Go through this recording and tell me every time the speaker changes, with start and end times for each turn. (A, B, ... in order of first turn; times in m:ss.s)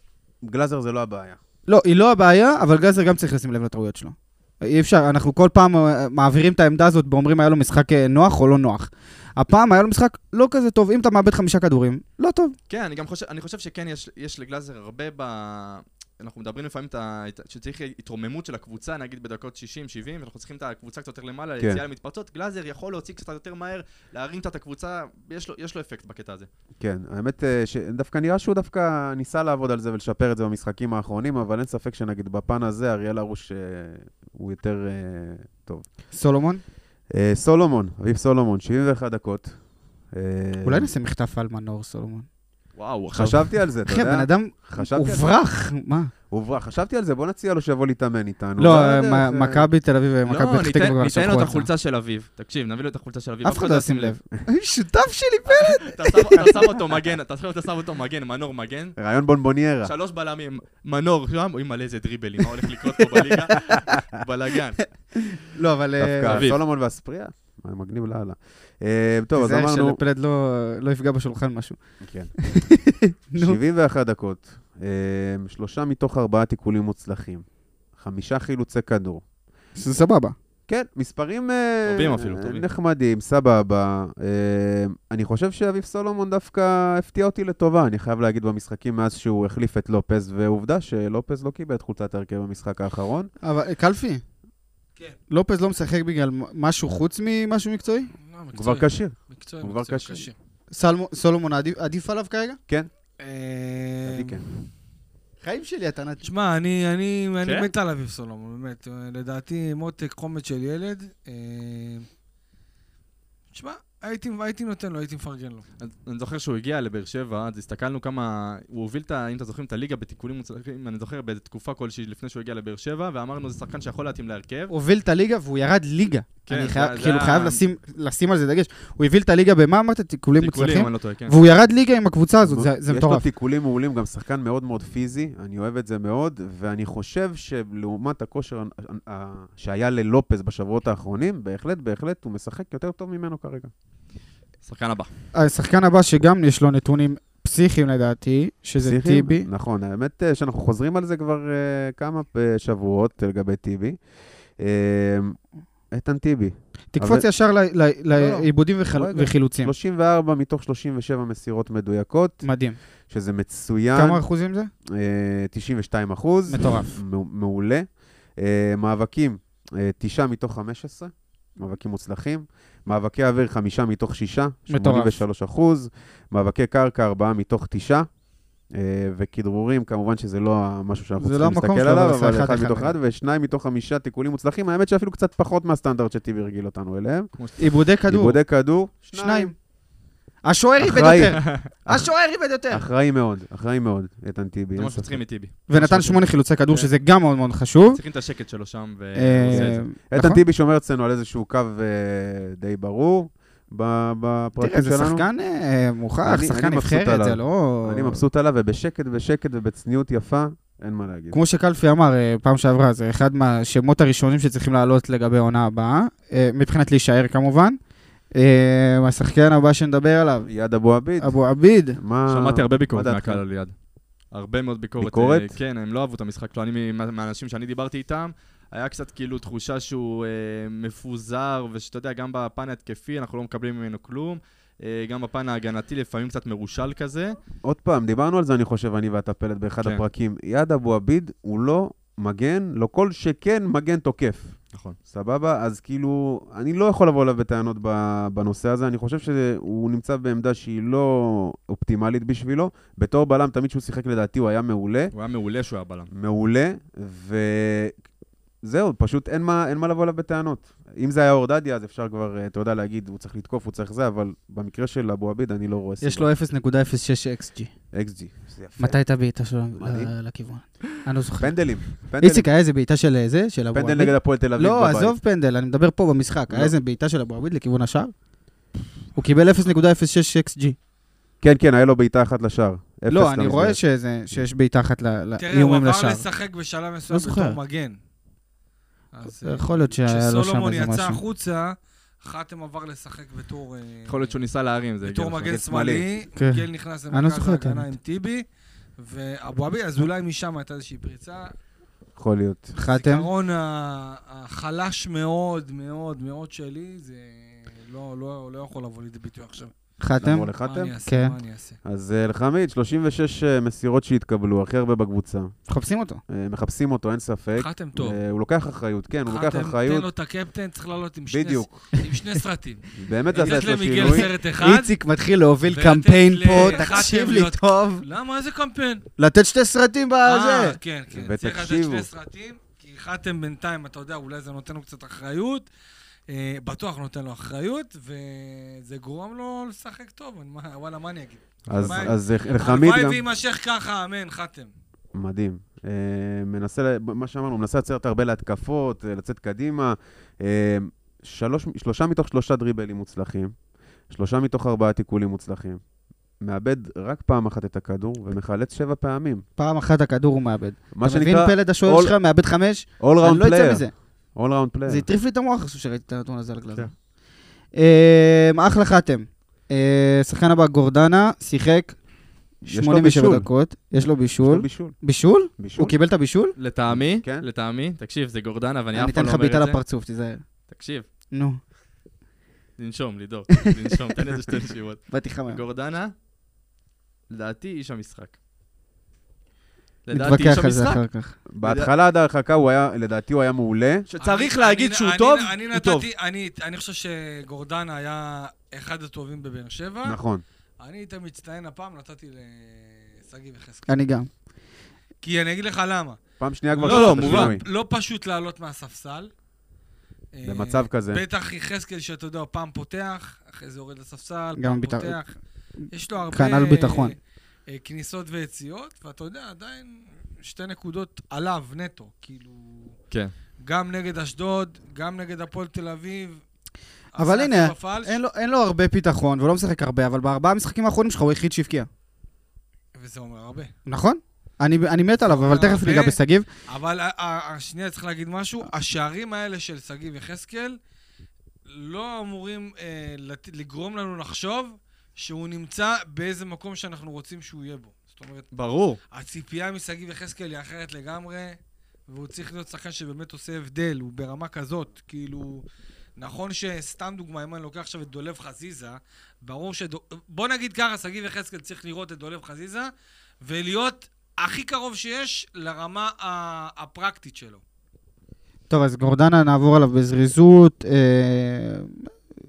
0:00.4-0:01.4 A
0:01.7-0:12.6 B
0:12.7-0:26.5 C
0:26.8-0:35.9 A
0:36.1-0:36.6 B
0:37.1-0:40.9 A
0:40.6-0:42.3 B
0:42.7-0:43.5 C
0:43.1-0:45.3 A
0:43.9-0:46.1 B
0:46.3-0:49.7 A
0:48.6-0:51.7 B
0:50.2-0:54.2 C
0:53.4-0:56.5 B
0:55.5-0:59.0 C
0:59.0-0:59.9 A
0:59.8-1:04.8 C
1:05.5-1:06.5 B
1:06.0-1:10.0 A
1:06.3-1:06.6 C
1:09.3-1:13.6 B
1:12.0-1:12.6 A
1:13.4-1:19.3 A
1:19.8-1:20.3 B
1:20.7-1:33.3 A
1:21.8-1:22.6 C
1:33.4-1:34.2 B
1:35.3-1:38.1 B
1:38.2-1:40.3 D
1:38.5-1:40.3 A
1:40.7-1:42.6 B
1:43.2-1:44.5 D
1:44.0-1:44.4 A
1:45.4-1:46.2 B
1:46.2-1:52.1 D
1:47.4-1:47.7 C
1:53.5-1:55.7 D
1:55.8-2:04.7 C
2:04.7-2:13.2 B
2:06.4-2:07.6 C
2:10.4-2:11.4 C
2:12.4-2:23.7 A
2:24.6-2:25.1 C
2:25.3-2:29.5 B
2:28.8-2:37.3 A
2:36.9-2:39.7 B
2:38.2-2:44.4 A
2:42.4-2:42.8 B
2:43.9-2:44.7 B
2:44.9-3:09.5 A
2:46.5-2:47.0 B
2:54.7-2:55.2 B
3:01.2-3:02.9 B
3:07.3-3:07.8 C
3:07.6-3:08.6 B
3:09.1-3:09.7 B
3:10.4-3:12.8 B
3:10.8-3:15.3 A
3:14.7-3:16.9 C
3:15.7-3:18.0 B
3:17.9-3:19.8 C
3:19.1-3:20.4 B
3:19.5-3:25.3 A
3:24.6-3:28.2 B
3:26.2-3:31.4 A
3:31.3-3:37.8 B
3:38.3-3:42.0 B
3:40.4-3:43.4 A
3:42.3-3:57.4 C
3:45.0-3:45.5 A
3:57.6-4:15.1 A
4:04.7-4:05.0 C
4:15.1-4:16.1 C
4:16.1-4:18.1 A
4:18.6-4:26.3 A
4:26.0-4:27.8 B
4:27.9-4:30.1 A
4:28.8-4:38.2 B
4:31.4-4:32.5 A
4:33.7-4:35.1 A
4:36.5-4:36.7 A
4:39.1-4:40.8 B
4:41.4-4:43.8 A
4:43.1-4:46.2 B
4:45.4-4:48.0 D
4:47.1-4:47.6 B
4:49.1-4:54.4 D
4:49.4-4:51.2 B
4:54.1-4:55.5 C
4:55.0-4:58.4 D
4:55.4-4:56.1 A
4:56.4-4:57.9 B
4:59.0-5:01.5 D
5:02.2-5:02.8 A
5:02.8-5:03.3 B
5:02.9-5:09.7 D
5:10.0-5:11.3 B
5:10.2-5:10.9 A
5:10.6-5:11.8 D
5:11.8-5:15.6 A
5:15.7-5:16.2 B
5:16.3-5:20.1 A
5:17.6-5:18.2 D
5:19.3-5:24.9 D
5:21.3-5:21.9 A
5:23.0-5:24.2 A
5:23.3-5:28.0 B
5:25.7-5:29.0 D
5:26.5-5:27.0 A
5:29.2-5:30.8 B
5:30.2-5:35.7 D
5:31.1-5:32.1 A
5:36.3-5:44.7 D
5:41.7-5:42.1 C
5:41.7-5:43.2 A
5:45.1-5:55.8 A
5:56.4-5:59.4 A
5:59.6-6:04.3 B
6:00.9-6:02.1 A
6:03.0-6:05.1 A
6:04.8-6:07.1 B
6:07.7-6:12.0 B
6:12.6-6:16.5 B
6:12.7-6:13.5 A
6:14.4-6:15.0 A
6:15.6-6:16.0 A
6:16.6-6:19.8 C
6:16.8-6:17.4 A
6:18.9-6:20.5 B
6:20.7-6:21.1 C
6:21.3-6:21.6 B
6:22.8-6:26.1 C
6:25.1-6:25.6 B
6:27.3-6:28.4 C
6:30.0-6:31.0 C
6:30.1-6:31.4 B
6:31.5-6:34.1 A
6:31.6-6:31.9 C
6:34.1-6:36.1 C
6:34.2-6:40.2 D
6:40.0-6:40.4 A
6:40.8-6:43.9 D
6:43.9-6:44.3 B
6:45.2-6:46.2 D
6:46.4-6:47.6 A
6:46.7-6:49.3 D
6:46.8-6:47.5 C
6:50.3-6:55.3 D
6:50.4-6:51.2 A
6:54.6-6:55.2 B
6:55.9-6:57.2 D
6:56.3-6:57.1 B
6:57.7-7:03.0 D
7:03.6-7:06.4 D
7:07.1-7:08.2 D
7:07.2-7:11.9 B
7:12.9-7:13.7 D
7:13.9-7:16.5 B
7:15.2-7:16.2 D
7:16.7-7:20.8 D
7:21.7-7:28.5 D
7:28.5-7:29.0 C
7:29.1-7:31.6 D
7:32.1-7:35.6 D
7:36.2-7:42.9 D
7:43.4-7:47.6 D
7:48.7-7:52.1 B